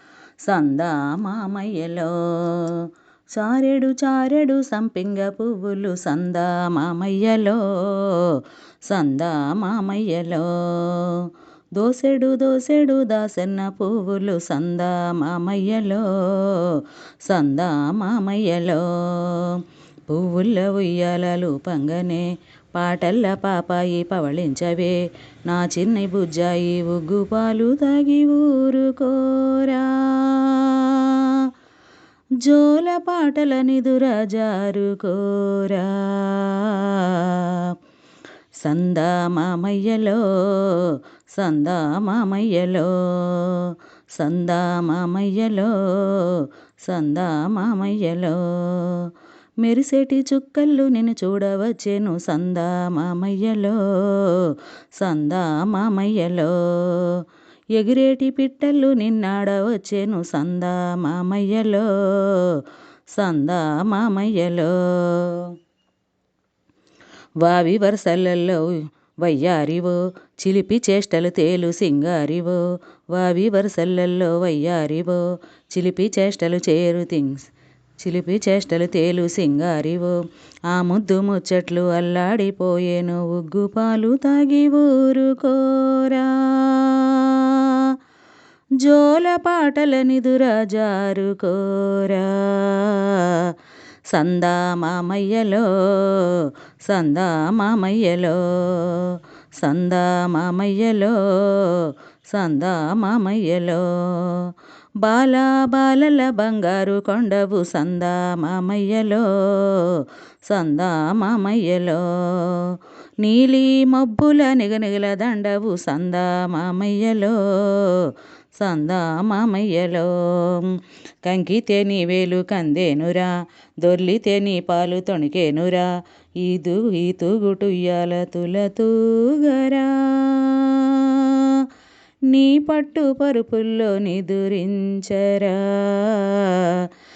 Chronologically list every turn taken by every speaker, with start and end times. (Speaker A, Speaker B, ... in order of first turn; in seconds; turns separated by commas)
Speaker A: 0.4-31.5, Speaker A: 32.4-37.7, Speaker A: 38.6-49.1, Speaker A: 49.6-65.5, Speaker A: 67.4-68.7, Speaker A: 69.2-88.0, Speaker A: 88.8-93.5, Speaker A: 94.1-125.9, Speaker A: 126.4-131.7, Speaker A: 132.3-136.9